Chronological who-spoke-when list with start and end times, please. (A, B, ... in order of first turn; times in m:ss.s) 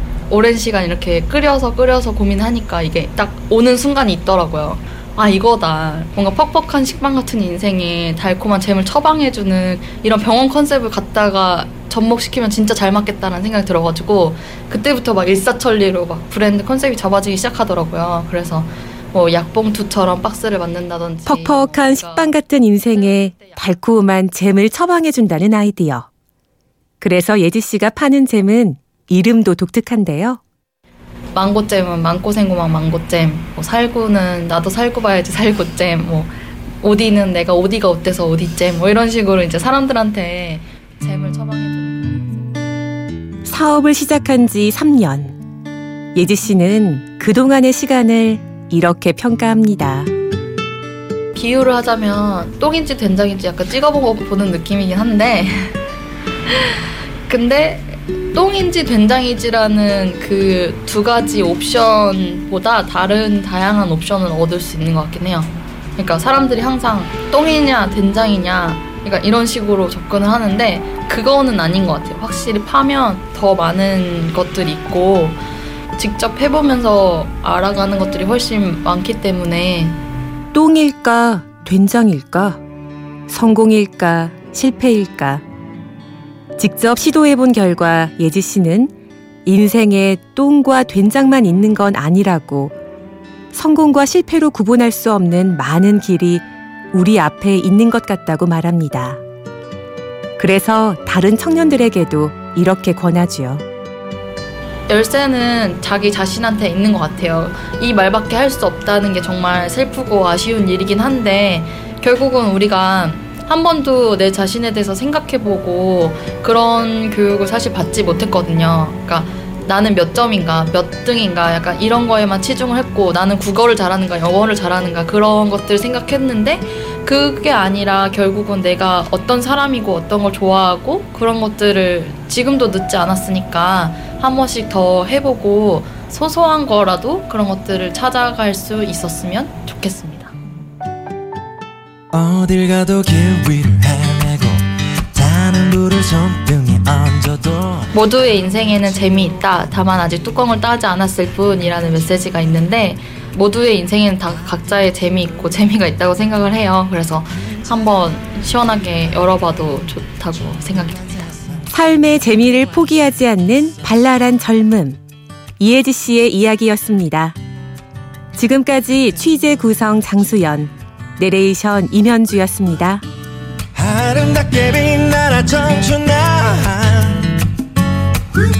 0:00.3-0:22.3 A
0:21.2-0:26.1 B
0:22.9-0:23.6 A
0:27.0-0:30.4 B
0:31.3-0:42.5 A
0:43.4-0:45.4 B
0:46.1-0:50.1 B
0:51.3-0:55.8 A
0:56.4-1:15.4 A
1:16.0-1:20.0 A
1:20.5-1:22.6 B
1:23.3-1:25.4 B
1:26.6-1:28.9 B
1:29.4-1:32.8 B
1:33.5-1:39.2 B
1:40.4-1:43.6 B
1:44.9-2:20.3 A
2:22.1-2:24.6 C
2:25.1-2:27.8 C
2:27.9-2:41.6 A
2:41.7-2:45.0 B
2:45.6-2:47.4 B
2:48.3-2:53.0 B
2:53.8-2:57.3 C